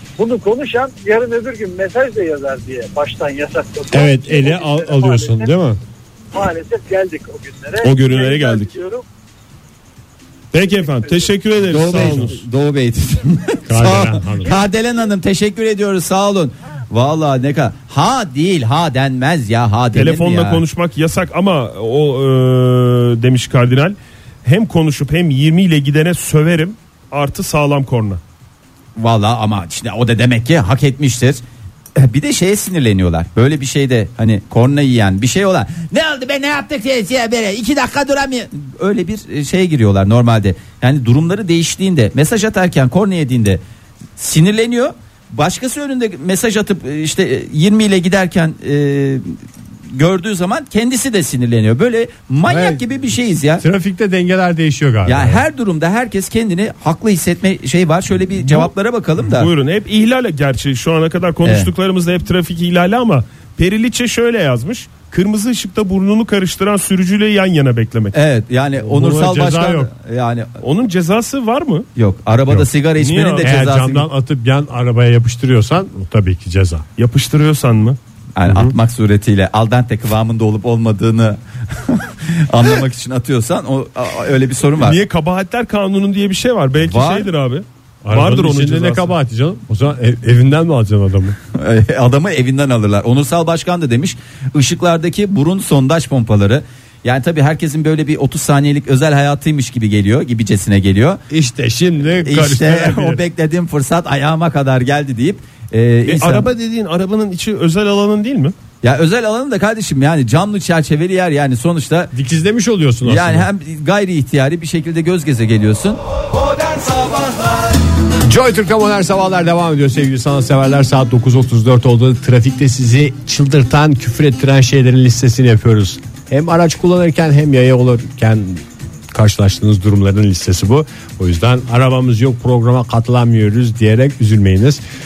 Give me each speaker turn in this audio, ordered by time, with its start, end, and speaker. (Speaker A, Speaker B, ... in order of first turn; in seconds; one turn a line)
Speaker A: 0.2-5.5
Speaker B: 3.9-5.8
Speaker A: 6.3-9.0
Speaker C: 7.8-8.7
Speaker C: 10.5-12.4
Speaker A: 10.8-11.3
Speaker D: 11.7-20.6
Speaker B: 13.7-14.6
Speaker C: 19.9-28.2
Speaker D: 28.9-31.4
Speaker D: 31.9-43.6
Speaker D: 44.2-49.4
Speaker D: 49.9-53.6
Speaker B: 52.5-52.8
Speaker B: 53.6-55.4
Speaker D: 55.0-59.5
Speaker C: 59.2-68.1
Speaker D: 61.4-61.7
Speaker D: 68.1-70.5
Speaker B: 68.8-69.9
Speaker C: 70.6-71.9
Speaker D: 72.0-74.0
Speaker C: 73.0-73.6
Speaker B: 73.4-76.8
Speaker C: 77.0-78.0
Speaker D: 78.3-85.0
Speaker B: 78.5-78.7
Speaker C: 84.8-89.1
Speaker D: 86.8-87.3
Speaker B: 88.0-91.4
Speaker D: 91.5-101.2
Speaker B: 101.3-103.2
Speaker D: 102.2-106.5
Speaker C: 106.1-108.5
Speaker D: 108.8-112.1
Speaker B: 112.1-113.5
Speaker D: 113.0-116.0
Speaker D: 116.9-117.4
Speaker B: 118.2-134.8